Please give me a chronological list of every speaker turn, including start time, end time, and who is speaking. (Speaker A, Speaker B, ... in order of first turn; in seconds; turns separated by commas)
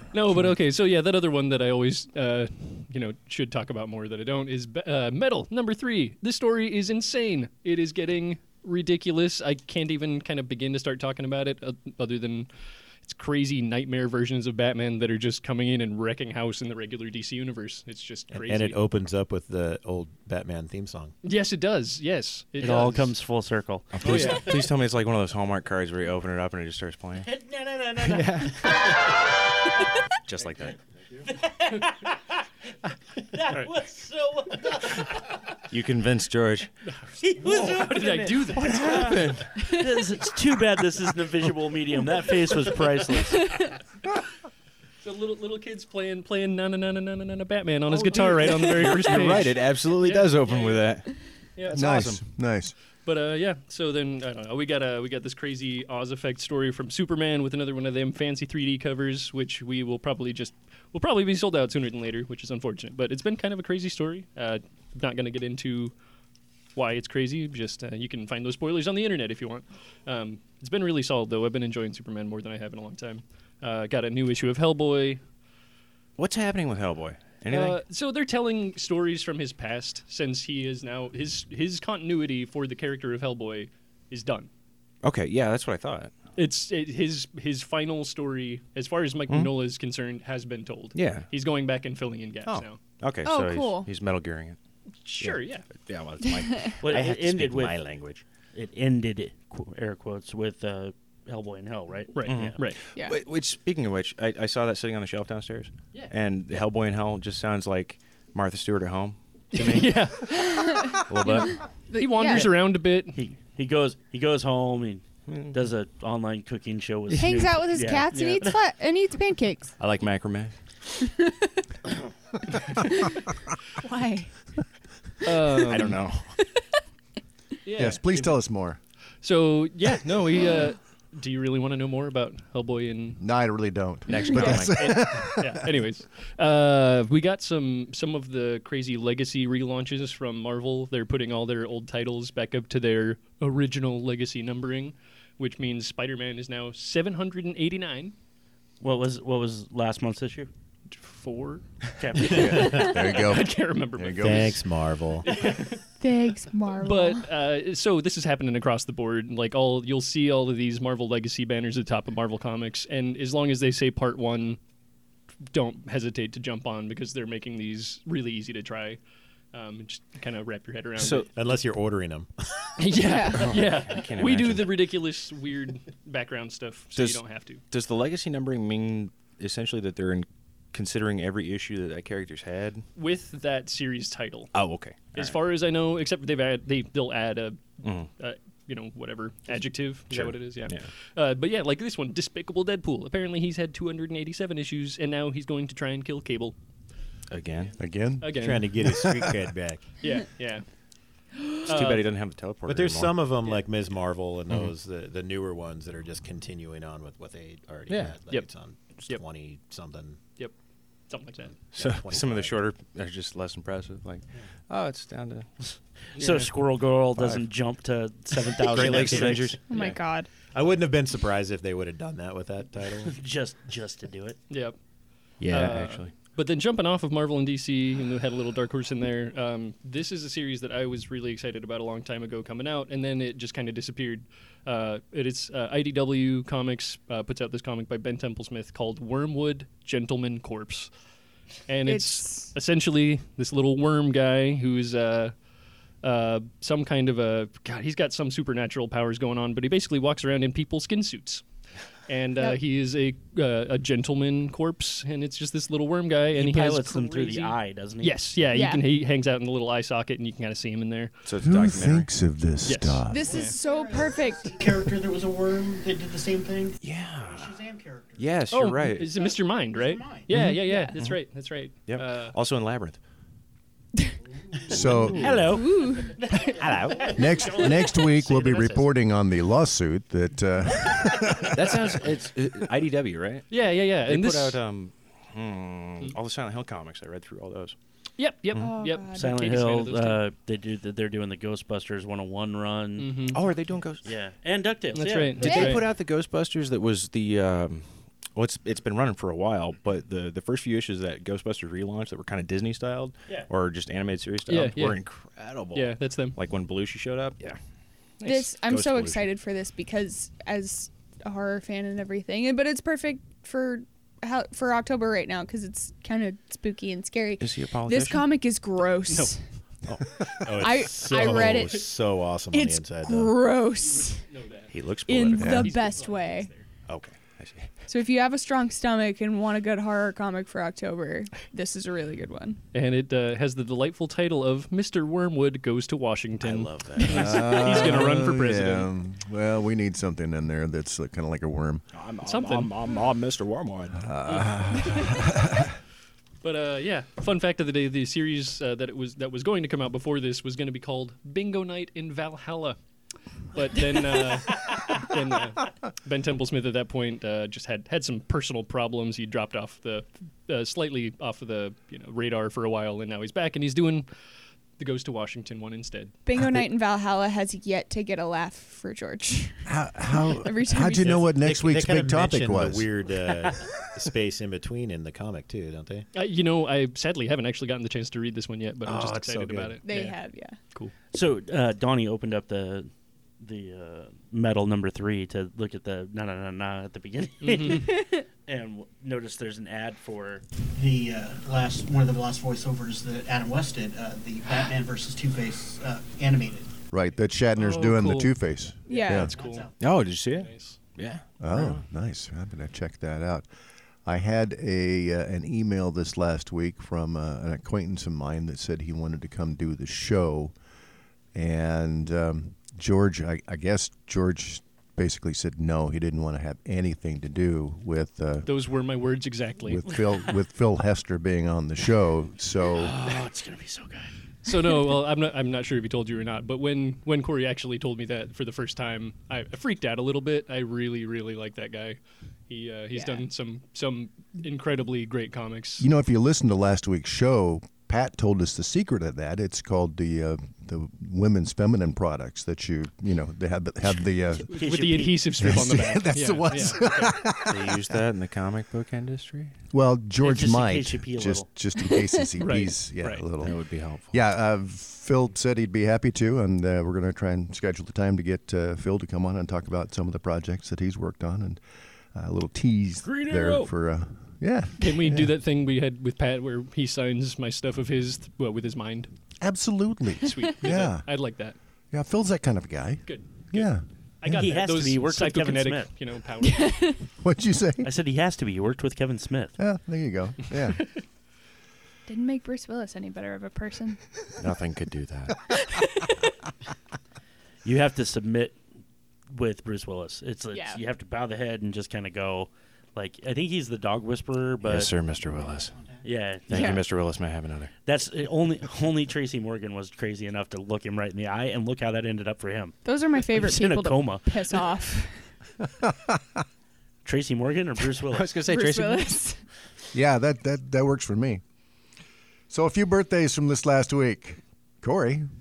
Speaker A: 0.1-12.5, Speaker A: 13.0-18.9, Speaker B: 18.3-21.1, Speaker A: 21.2-23.1, Speaker C: 22.6-24.5, Speaker D: 23.9-27.3, Speaker A: 24.0-24.5, Speaker C: 27.2-29.1, Speaker D: 28.0-28.8, Speaker D: 30.3-30.8, Speaker C: 31.3-32.4, Speaker C: 33.3-35.2, Speaker D: 35.7-36.7, Speaker A: 37.0-39.1, Speaker C: 37.2-43.7, Speaker D: 38.5-39.7, Speaker A: 45.0-50.9, Speaker D: 48.0-52.2, Speaker C: 48.2-48.6, Speaker A: 51.6-52.0, Speaker E: 51.7-52.8, Speaker A: 53.0-66.0, Speaker A: 66.8-75.2, Speaker D: 76.2-77.8, Speaker A: 77.5-84.5, Speaker D: 85.0-86.1, Speaker A: 86.4-92.8, Speaker D: 89.3-89.6, Speaker D: 90.9-91.3, Speaker D: 92.5-94.6, Speaker F: 93.2-93.9, Speaker A: 95.0-95.7, Speaker D: 95.2-98.2, Speaker C: 96.8-97.9, Speaker C: 98.5-102.6, Speaker A: 102.2-102.8, Speaker D: 102.2-110.4, Speaker A: 109.5-113.2, Speaker F: 110.5-112.5, Speaker D: 111.0-111.7, Speaker C: 113.1-118.6, Speaker D: 115.3-115.6, Speaker F: 117.1-119.8, Speaker A: 118.1-118.4, Speaker D: 119.8-120.6, Speaker F: 123.8-124.3, Speaker A: 125.2-126.0, Speaker D: 125.5-126.4, Speaker A: 127.7-128.4, Speaker E: 127.8-128.8, Speaker A: 129.2-133.2, Speaker D: 130.0-130.6, Speaker E: 133.2-135.8, Speaker D: 134.1-135.0, Speaker F: 134.3-134.6, Speaker A: 134.6-148.1, Speaker C: 148.8-150.5, Speaker A: 150.9-151.7, Speaker C: 152.0-152.9, Speaker A: 152.2-155.8, Speaker E: 152.2-154.6, Speaker B: 154.2-155.3, Speaker F: 156.0-157.3, Speaker A: 156.8-164.6, Speaker A: 165.5-169.0, Speaker A: 169.5-171.3, Speaker D: 171.0-171.3, Speaker B: 171.3-172.4, Speaker A: 172.8-177.6, Speaker F: 173.0-173.5, Speaker D: 173.3-174.9, Speaker D: 176.9-182.9, Speaker A: 182.9-184.5, Speaker D: 184.5-185.4, Speaker A: 185.1-196.6, Speaker D: 187.8-188.1, Speaker D: 190.1-190.9, Speaker D: 197.3-197.9, Speaker E: 197.8-199.2, Speaker A: 198.2-199.0, Speaker B: 198.3-199.9, Speaker A: 200.0-200.7, Speaker D: 201.7-203.4, Speaker A: 201.7-202.2, Speaker B: 202.6-210.2, Speaker D: 207.9-208.2, Speaker A: 208.3-208.5, Speaker A: 211.1-211.6, Speaker D: 211.7-215.6, Speaker B: 211.7-212.6, Speaker C: 216.2-219.6, Speaker A: 216.2-216.5, Speaker D: 217.2-217.4, Speaker D: 218.6-220.0, Speaker B: 218.7-219.6, Speaker F: 219.7-220.3, Speaker B: 220.5-223.2, Speaker C: 223.1-224.4, Speaker A: 224.5-224.8, Speaker D: 225.4-226.2, Speaker A: 225.5-240.9, Speaker A: 241.7-245.3, Speaker F: 241.8-242.5, Speaker A: 246.0-251.4, Speaker A: 252.1-261.1, Speaker C: 256.4-258.3, Speaker F: 258.5-258.9, Speaker D: 261.2-262.1, Speaker E: 261.4-263.4, Speaker A: 262.6-263.6, Speaker F: 263.1-264.6, Speaker G: 263.1-268.3, Speaker D: 266.8-267.6, Speaker D: 268.2-269.2, Speaker A: 268.5-272.4, Speaker G: 269.1-270.3, Speaker E: 270.3-270.6, Speaker F: 270.6-270.9, Speaker D: 271.0-271.2, Speaker D: 271.8-273.0, Speaker G: 274.5-275.1, Speaker E: 274.7-275.5, Speaker D: 274.7-275.6, Speaker C: 275.1-276.5, Speaker F: 275.5-276.2, Speaker G: 276.4-277.2, Speaker D: 276.6-277.1, Speaker C: 277.1-278.8, Speaker E: 277.1-281.8, Speaker D: 281.5-287.8, Speaker A: 283.5-284.6, Speaker A: 288.2-290.2, Speaker F: 288.6-289.4, Speaker C: 289.1-293.2, Speaker A: 293.0-293.4, Speaker D: 293.3-294.1, Speaker C: 294.0-295.7, Speaker A: 294.9-295.9, Speaker D: 295.3-307.6, Speaker F: 295.4-295.7, Speaker A: 304.5-305.0, Speaker A: 305.7-306.4, Speaker D: 308.2-309.3, Speaker F: 308.2-319.4, Speaker D: 317.4-318.3, Speaker A: 319.1-319.4, Speaker B: 320.4-323.4, Speaker F: 320.6-321.9, Speaker D: 321.2-321.6, Speaker F: 322.5-324.2, Speaker A: 323.8-324.7, Speaker D: 324.7-325.7, Speaker F: 325.1-326.5, Speaker E: 325.4-325.7, Speaker A: 325.6-326.7, Speaker D: 326.9-327.7, Speaker F: 327.9-332.6, Speaker A: 332.7-338.9, Speaker D: 336.4-338.0, Speaker E: 337.1-341.8, Speaker D: 341.9-344.2, Speaker A: 342.2-343.0, Speaker E: 344.0-345.7, Speaker A: 344.3-345.2, Speaker A: 346.4-352.8, Speaker A: 353.5-364.1, Speaker A: 364.8-366.1, Speaker F: 366.3-371.2, Speaker E: 366.4-366.6, Speaker E: 369.7-372.9, Speaker B: 371.3-376.1, Speaker A: 376.1-380.9, Speaker B: 378.9-379.8, Speaker F: 379.8-380.6, Speaker C: 381.1-390.4, Speaker A: 387.4-387.9, Speaker F: 387.8-388.2, Speaker G: 390.8-396.7, Speaker E: 396.9-399.4, Speaker A: 397.6-398.4, Speaker F: 398.9-399.3, Speaker A: 398.9-399.7, Speaker G: 399.0-399.7, Speaker D: 399.8-401.8, Speaker A: 400.4-400.8, Speaker E: 401.4-403.5, Speaker E: 404.1-410.5, Speaker E: 411.3-418.5, Speaker A: 418.5-419.9, Speaker E: 419.6-423.0, Speaker C: 422.7-424.1, Speaker A: 424.4-432.0, Speaker A: 432.5-435.9, Speaker F: 432.9-433.2, Speaker E: 435.8-444.5, Speaker C: 444.4-445.5, Speaker A: 444.5-447.1, Speaker E: 445.4-448.0, Speaker D: 447.4-449.6, Speaker E: 449.7-461.6, Speaker C: 450.2-451.5, Speaker A: 452.4-453.1, Speaker D: 453.1-454.2, Speaker E: 462.1-465.4, Speaker C: 463.1-463.7, Speaker A: 464.8-469.1, Speaker E: 469.4-471.1, Speaker A: 470.2-471.6, Speaker E: 471.9-474.4, Speaker A: 473.1-477.0, Speaker C: 474.3-475.9, Speaker F: 476.4-477.0, Speaker E: 477.2-477.9, Speaker C: 477.8-479.6, Speaker E: 479.6-480.9, Speaker F: 482.1-484.0, Speaker D: 484.4-485.4, Speaker F: 485.7-486.1, Speaker C: 487.6-488.6, Speaker C: 489.3-494.9, Speaker F: 490.5-490.8, Speaker D: 494.6-495.8, Speaker G: 495.4-496.0, Speaker C: 496.0-496.8, Speaker D: 496.5-497.7, Speaker F: 496.5-496.8, Speaker C: 497.9-504.7, Speaker F: 502.9-505.3, Speaker E: 505.8-506.4, Speaker C: 507.1-508.3, Speaker D: 508.1-509.2, Speaker F: 508.5-509.4, Speaker E: 509.9-511.4, Speaker E: 512.5-515.3